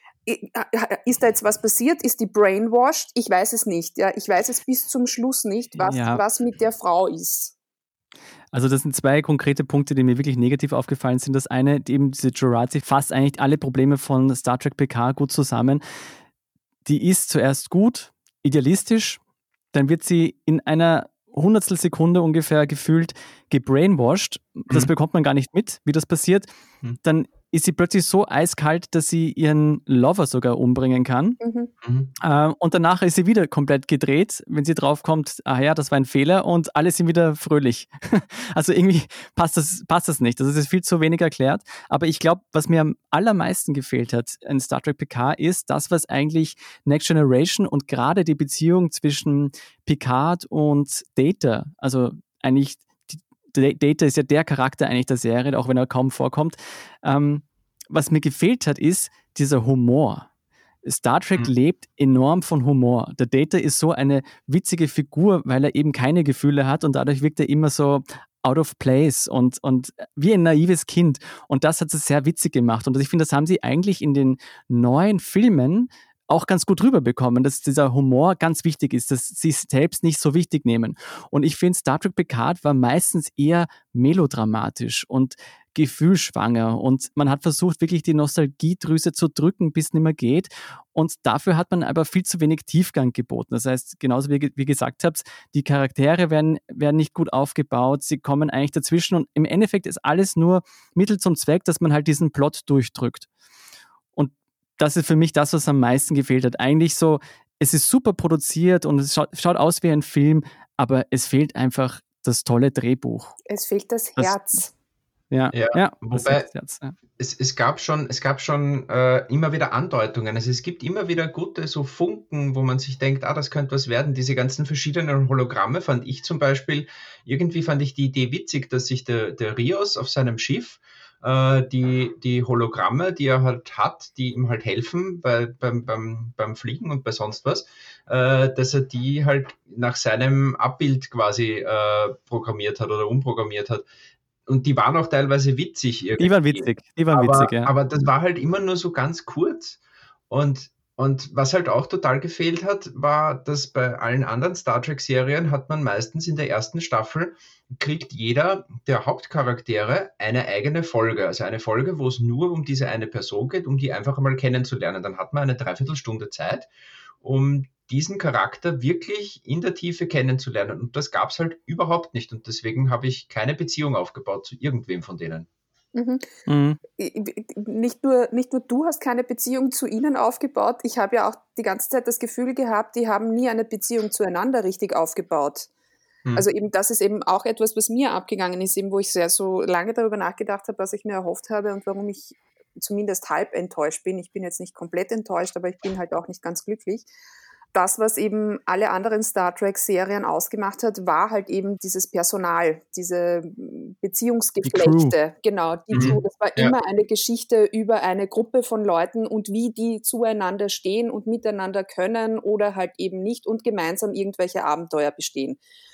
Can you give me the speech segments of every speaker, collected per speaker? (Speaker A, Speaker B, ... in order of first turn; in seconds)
Speaker A: 0.3-7.5, 31.4-31.7, 113.5-114.7, 175.9-176.3, 176.9-185.7, 186.3-197.1, 197.7-215.6
Speaker B: 5.8-6.2, 8.5-15.8, 16.9-19.2, 19.7-26.5, 27.0-31.4, 32.2-60.3, 60.8-103.3, 104.2-113.4, 114.2-114.6, 115.3-117.0, 146.2-147.7, 176.5-176.8, 204.7-205.2
Speaker C: 31.8-32.1, 115.5-116.5, 117.2-143.8, 144.5-149.8, 150.3-166.7, 167.2-175.5, 205.9-206.8